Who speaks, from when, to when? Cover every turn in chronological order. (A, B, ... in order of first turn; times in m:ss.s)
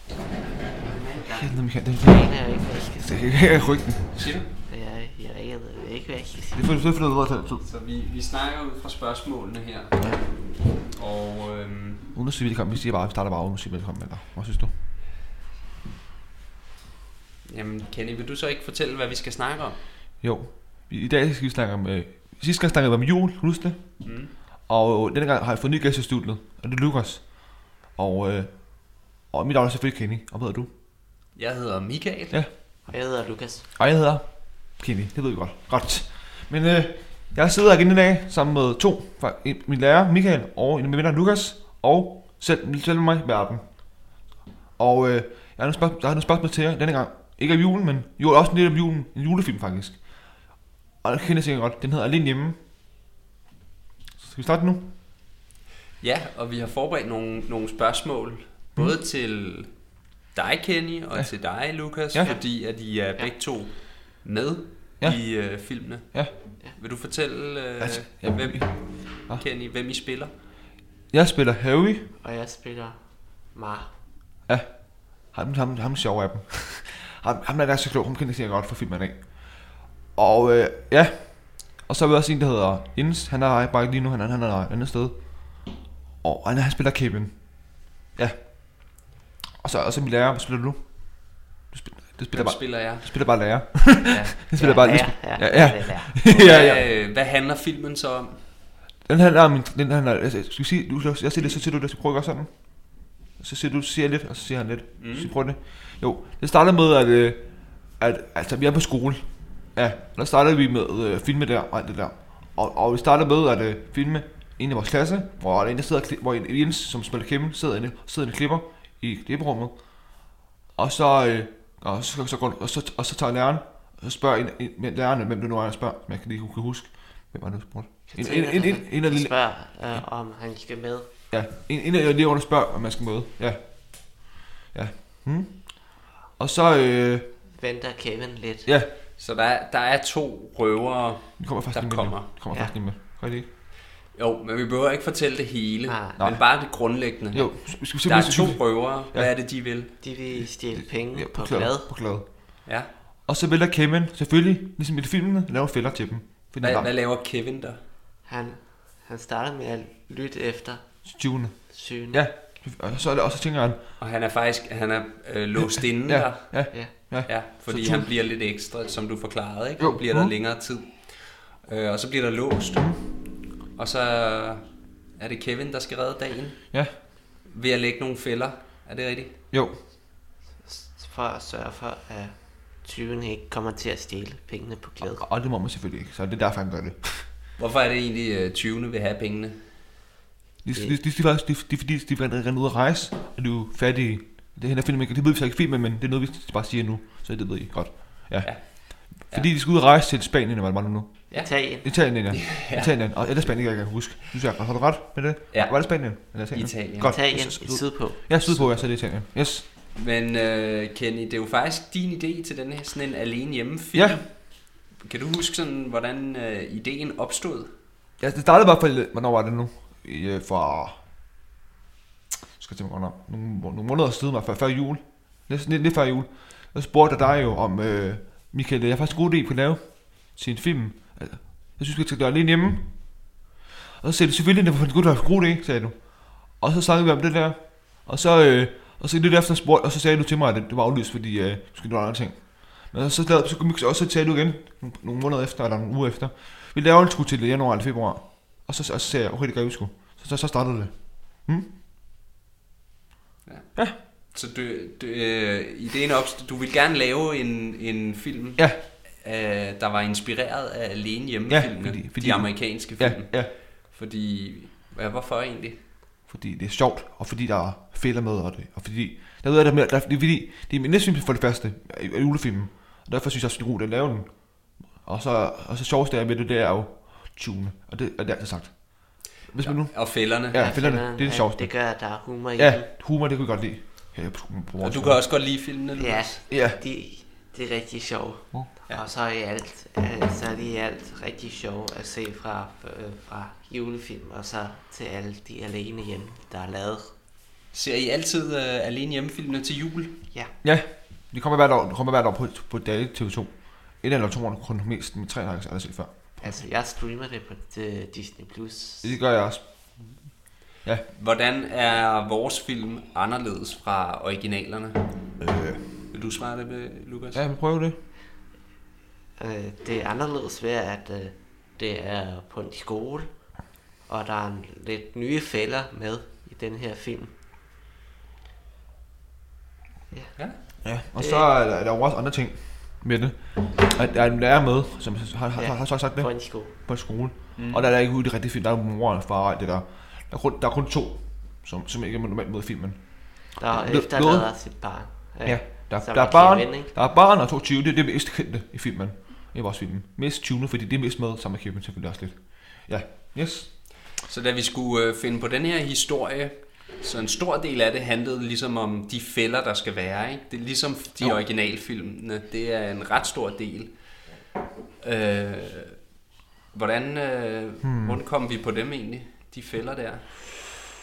0:00.8-0:01.3 A
0:01.1-0:04.4 B
0:01.2-0:03.6 C
0:04.1-0:04.5 A
0:04.7-0:06.8 C
0:06.5-0:07.6 B
0:07.6-0:12.1 A
0:12.1-0:14.7 B
0:17.4-0:19.8 A
0:20.2-0:24.0 B
0:24.0-0:24.3 A
0:24.7-0:30.7 B
0:31.3-0:32.4 A
0:32.9-0:33.7 C
0:33.8-0:43.7 B
0:44.8-0:50.0 B
0:51.0-0:52.6 B
0:54.2-0:54.8 B
0:56.0-0:59.7 A
1:00.3-1:10.3 A
1:02.0-1:02.3 B
1:05.0-1:06.3 B
1:07.8-1:09.4 B
1:11.1-1:12.1 B
1:12.2-1:13.0 C
1:13.5-1:13.9 C
1:15.3-1:19.2 B
1:20.2-1:25.2 B
1:26.2-1:27.5 B
1:28.1-1:29.0 B
1:29.6-1:36.8 B
1:32.3-1:33.1 A
1:34.4-1:36.3 C
1:36.2-1:38.4 A
1:39.0-1:42.5 B
1:43.4-1:47.4 B
1:45.0-1:45.3 A
1:48.0-1:49.2 B
1:49.7-1:59.7 B
2:00.8-2:10.0 B
2:08.1-2:11.1 C
2:11.3-2:17.3 B
2:17.5-2:18.7 C
2:19.2-2:22.3 A
2:21.4-2:23.5 B
2:24.1-2:29.9 A
2:25.9-2:26.2 C
2:26.2-2:26.4 B
2:27.3-2:29.3 B
2:30.0-2:31.9 C
2:30.7-2:32.3 B
2:33.3-2:36.9 B
2:36.6-2:37.8 A
2:38.3-2:40.8 C
2:41.0-2:41.6 B
2:41.7-2:42.2 C
2:42.1-2:43.8 B
2:44.0-2:46.5 A
2:45.6-2:48.1 B
2:47.2-2:52.9 A
2:49.8-2:50.3 B
2:53.8-2:54.6 A
2:55.2-2:56.6 A
2:57.4-2:59.3 A
3:00.6-3:05.2 C
3:05.0-3:07.2 B
3:07.6-3:09.6 A
3:10.6-3:29.6 B
3:18.4-3:19.5 A
3:21.4-3:22.0 C
3:22.1-3:22.9 A
3:25.5-3:25.8 A
3:26.5-3:27.1 A
3:27.0-3:28.4 C
3:28.4-3:28.9 A
3:29.9-3:37.7 A
3:33.9-3:34.2 B
3:38.2-3:41.0 B
3:42.6-3:53.0 B
3:54.0-3:56.0 B
3:56.5-4:11.7 B
4:14.3-4:25.8 A
4:21.5-4:23.5 B
4:26.3-4:34.3 B
4:35.0-4:41.7 B
4:39.6-4:40.7 A
4:40.5-4:42.9 C
4:42.6-4:45.2 B
4:44.8-4:46.4 A
4:45.9-4:57.1 C
4:46.5-4:46.8 B
4:57.7-5:00.1 A
5:00.6-5:06.6 B
5:06.4-5:09.1 C
5:09.0-5:09.6 B
5:11.1-5:15.0 A
5:15.4-5:15.8 B
5:16.1-5:17.4 A
5:17.3-5:18.0 B
5:19.4-5:23.3 C
5:24.1-5:27.3 C
5:30.8-5:44.6 B
5:31.1-5:31.5 C
5:35.5-5:36.7 C
5:37.6-5:37.9 A
5:43.6-5:46.9 C
5:45.4-5:53.8 B
5:54.2-6:03.9 A
6:05.0-6:06.0 A
6:06.7-6:10.3 A
6:07.8-6:08.2 B